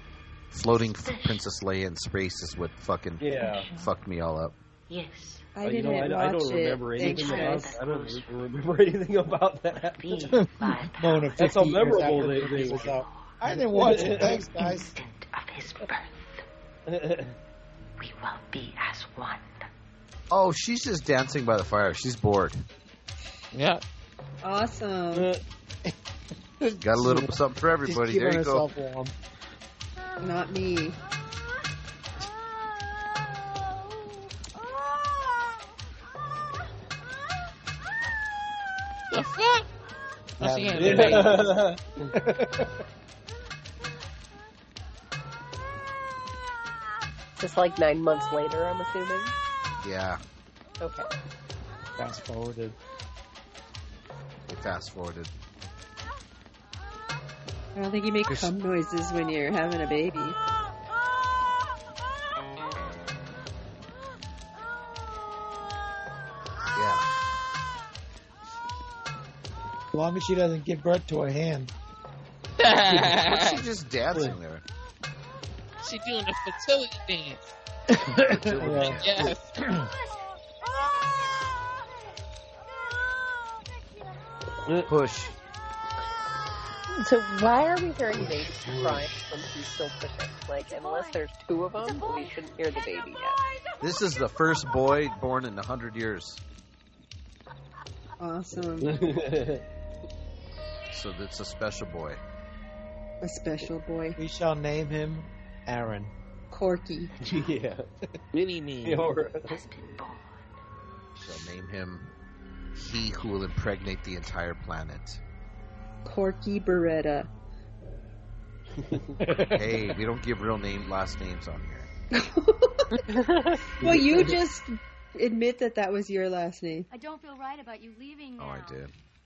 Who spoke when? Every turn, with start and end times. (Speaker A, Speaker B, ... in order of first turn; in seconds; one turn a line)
Speaker A: 0.5-4.6
Speaker B: 0.7-1.4
Speaker C: 3.2-3.7
Speaker B: 3.5-3.8
Speaker B: 4.9-5.6
Speaker D: 5.6-7.8
Speaker C: 5.6-10.4
Speaker B: 7.0-8.6
Speaker B: 9.7-16.4
Speaker E: 10.3-14.9
Speaker C: 11.4-13.0
Speaker C: 13.6-14.4
Speaker C: 16.9-17.4
Speaker B: 18.0-19.7
Speaker A: 20.3-22.6
Speaker F: 23.5-23.8
Speaker D: 24.4-25.3
Speaker C: 25.1-25.4
Speaker E: 26.6-27.3
Speaker A: 26.8-28.7
Speaker E: 27.8-29.1
Speaker D: 30.2-31.0
Speaker F: 39.1-39.7
Speaker F: 40.4-41.5
Speaker E: 40.4-41.4
Speaker C: 40.8-42.1
Speaker E: 42.1-42.7
Speaker G: 47.4-49.4
Speaker A: 49.8-50.2
Speaker G: 50.8-51.1
Speaker E: 52.0-52.8
Speaker A: 54.5-55.3
Speaker D: 57.8-60.4
Speaker A: 66.8-67.1
Speaker E: 69.9-71.7
Speaker F: 72.6-73.6
Speaker A: 73.1-74.6
Speaker F: 75.8-77.4
Speaker E: 77.9-79.1
Speaker A: 78.3-79.0
Speaker C: 78.6-79.3
Speaker F: 79.0-79.5
Speaker H: 79.7-81.5
Speaker H: 83.8-84.1
Speaker A: 84.9-85.3
Speaker G: 86.9-93.4
Speaker C: 88.3-89.1
Speaker H: 90.6-91.2
Speaker H: 91.8-94.7
Speaker A: 93.8-96.4
Speaker D: 98.2-99.0
Speaker C: 98.8-99.6
Speaker A: 100.9-102.2
Speaker D: 103.2-104.2
Speaker E: 104.2-106.1
Speaker D: 106.5-107.1
Speaker B: 107.1-107.6
Speaker C: 107.2-107.9
Speaker F: 108.3-109.1
Speaker C: 108.8-109.6
Speaker B: 109.4-110.5
Speaker A: 111.2-112.1
Speaker A: 112.8-115.2
Speaker D: 116.0-117.3
Speaker C: 118.8-119.2
Speaker E: 119.2-119.8
Speaker A: 119.4-121.9
Speaker D: 122.1-122.9
Speaker G: 123.1-123.6
Speaker C: 123.8-124.4
Speaker D: 123.8-126.9
Speaker H: 126.9-128.8
Speaker A: 128.4-128.9